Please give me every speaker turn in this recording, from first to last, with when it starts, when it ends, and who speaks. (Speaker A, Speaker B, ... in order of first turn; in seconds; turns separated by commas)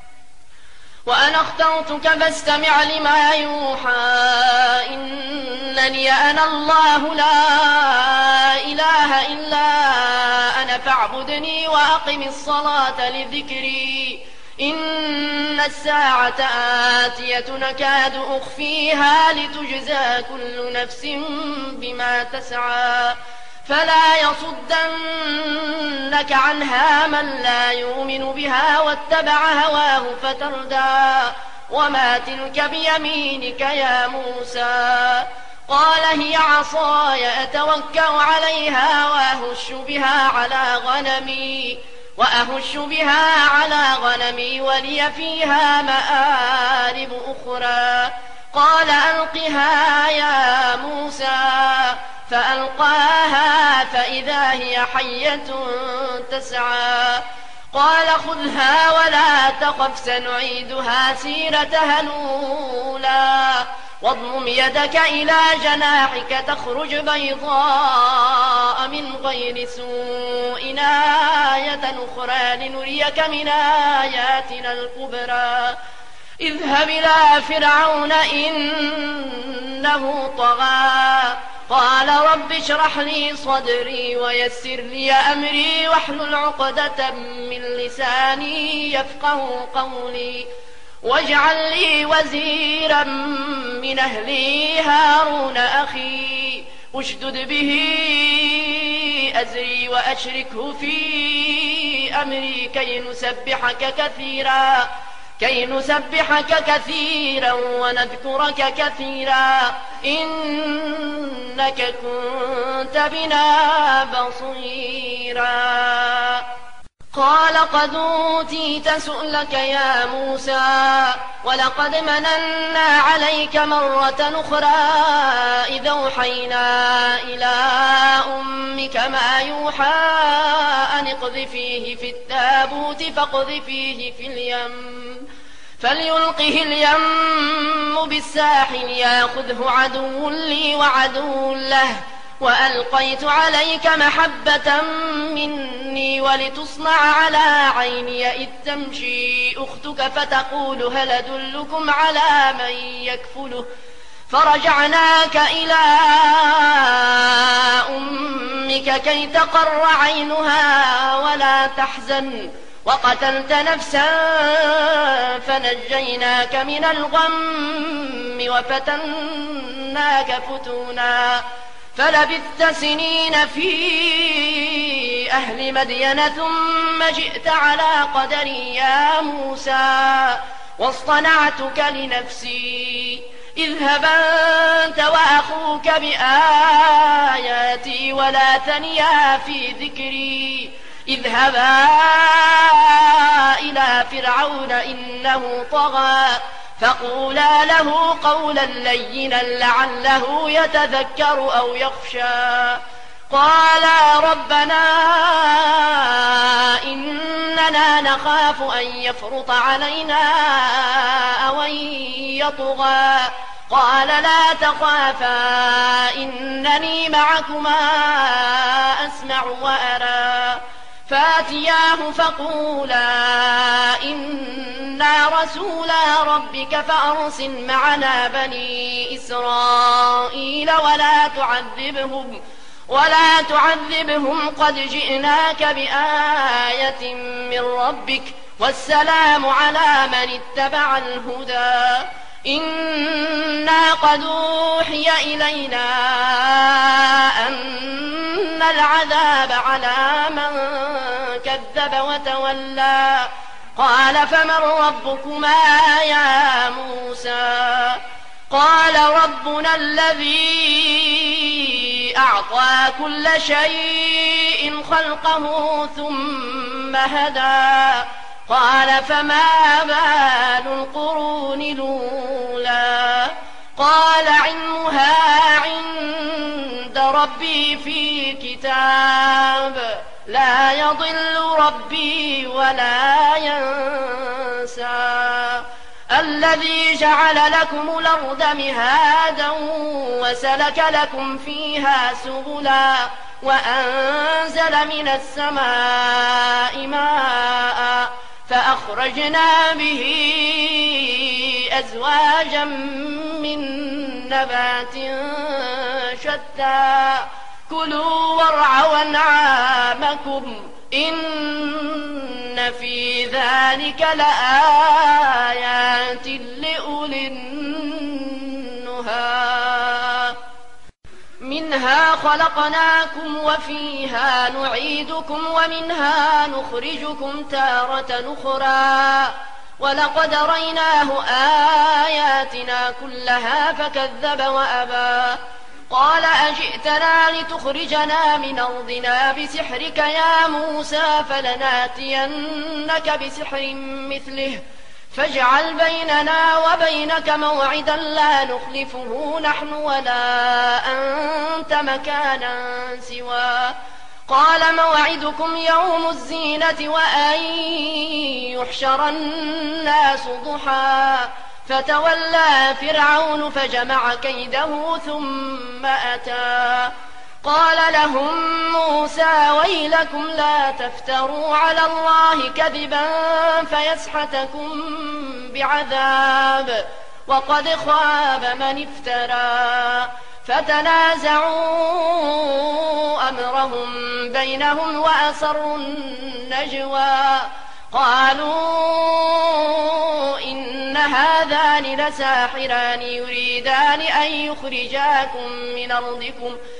Speaker A: 1.1-75.8, Speaker A: 76.4-90.5, Speaker A: 91.0-116.5, Speaker A: 117.1-135.3, Speaker A: 135.8-153.7, Speaker A: 154.3-171.4, Speaker A: 171.9-320.4, Speaker A: 321.4-353.8, Speaker A: 354.3-396.6